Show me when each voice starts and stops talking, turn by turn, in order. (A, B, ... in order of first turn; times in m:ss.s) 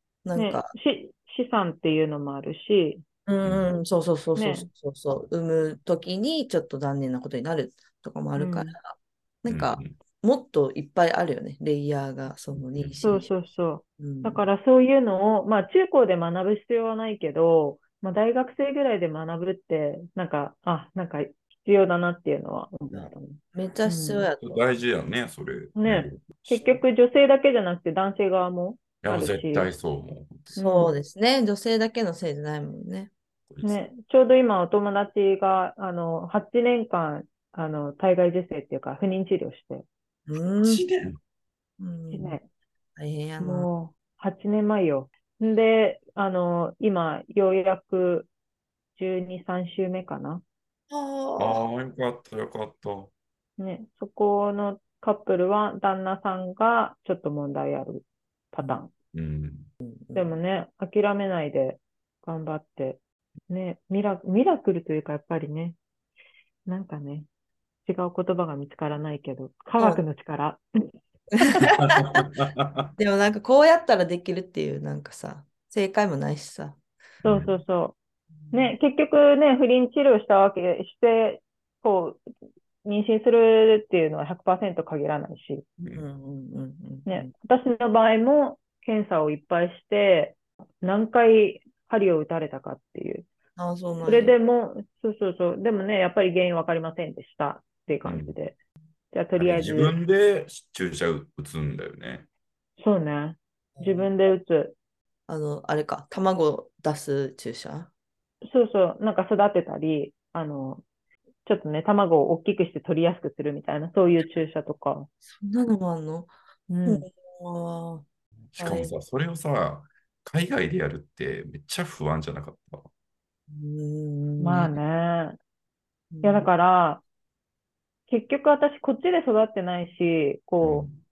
0:00.2-0:00.7 A
0:00.4-0:03.0 B
0:03.3-0:13.3 A
0:04.4-0:04.7 B
0:08.4-0:08.8 B
0:09.5-0:09.9 C
0:12.6-0:13.1 C
0:13.0-0:24.3 B
0:14.0-0:14.4 A
0:22.9-0:24.6 A
0:24.4-0:26.6 C
0:25.8-0:29.7 B
0:29.0-0:30.6 C
0:30.6-0:30.9 B
0:30.6-0:33.1 A
0:33.5-0:33.8 C
0:33.6-0:39.8 B
0:40.3-0:40.8 A
0:40.6-0:41.2 C
0:41.8-0:42.4 A
0:42.1-0:42.5 B
0:43.0-0:43.7 A
0:43.4-0:48.3 B
0:49.0-0:50.4 B
0:50.9-0:51.6 A
0:51.4-0:53.1 C
0:53.6-0:58.9 B
0:59.1-0:59.7 C
0:59.8-1:00.3 A
1:00.2-1:05.8 B
1:06.7-1:07.3 B
1:07.9-1:10.6 B
1:11.4-1:12.2 A
1:11.9-1:12.9 C
1:13.0-1:16.8 A
1:17.2-1:17.6 C
1:17.2-1:18.0 B
1:18.4-1:18.8 A
1:18.5-1:22.2 B
1:22.8-1:25.6 B
1:25.8-1:26.0 C
1:26.0-1:27.3 A
1:27.1-1:33.3 B
1:33.6-1:34.4 A
1:34.0-1:38.6 B
1:38.0-1:38.3 C
1:39.1-1:40.0 B
1:39.4-1:42.3 C
1:42.8-1:44.8 B
1:43.8-1:44.1 A
1:45.3-1:47.9 A
1:48.4-1:50.8 B
1:51.4-1:55.1 B
1:55.3-1:56.3 A
1:56.7-1:57.0 B
1:56.9-1:58.0 A
1:58.5-2:02.9 C
1:58.6-1:58.9 A
2:03.5-2:04.8 A
2:04.4-2:05.4 B
2:06.1-2:06.5 A
2:06.2-2:07.0 B
2:08.1-2:10.9 B
2:10.6-2:11.0 C